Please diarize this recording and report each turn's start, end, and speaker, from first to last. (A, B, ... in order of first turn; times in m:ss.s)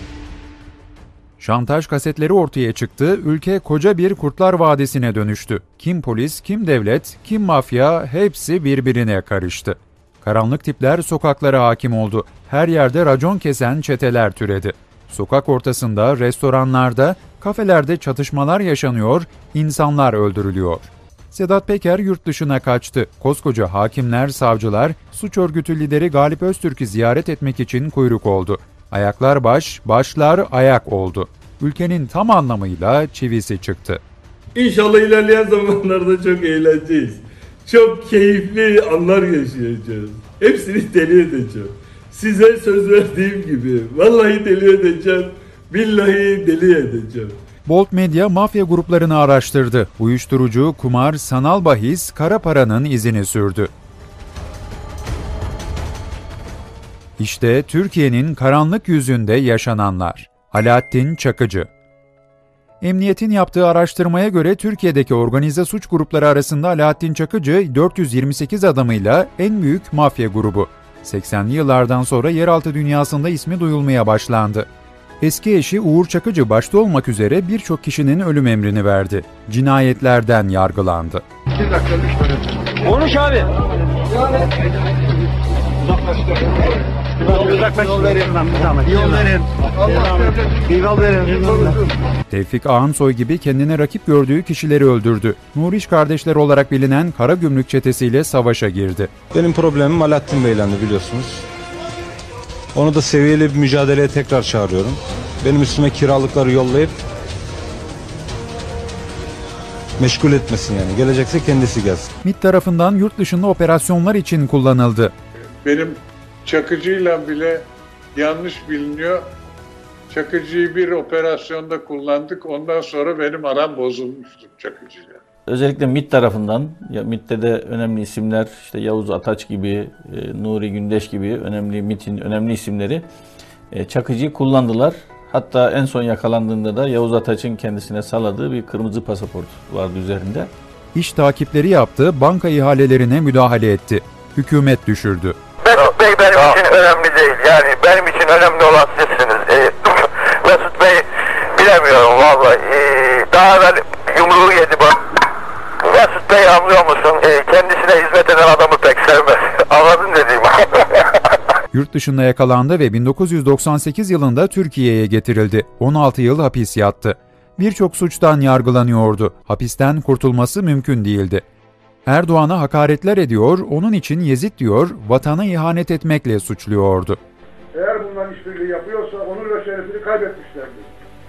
0:01.4-0:34.0 A
0:34.5-0:47.4 B
0:47.6-0:53.7 A
0:57.2-1:01.7 A
1:02.8-1:14.7 A
1:15.2-1:21.2 A
1:27.4-1:29.3 C
1:30.9-1:31.5 C
1:32.3-1:39.1 A
1:39.3-1:41.4 D
1:42.7-1:47.0 D
1:50.0-1:52.1 D
1:52.2-1:55.1 A
1:55.6-1:57.6 E
1:58.1-1:59.2 E
2:00.1-2:05.2 E
2:05.5-2:13.0 F
2:13.7-2:20.5 F
2:20.9-2:25.4 A
2:25.6-2:35.0 G
2:35.8-2:41.1 G
2:41.7-2:51.4 A
2:52.0-2:57.2 A
2:57.7-3:00.9 H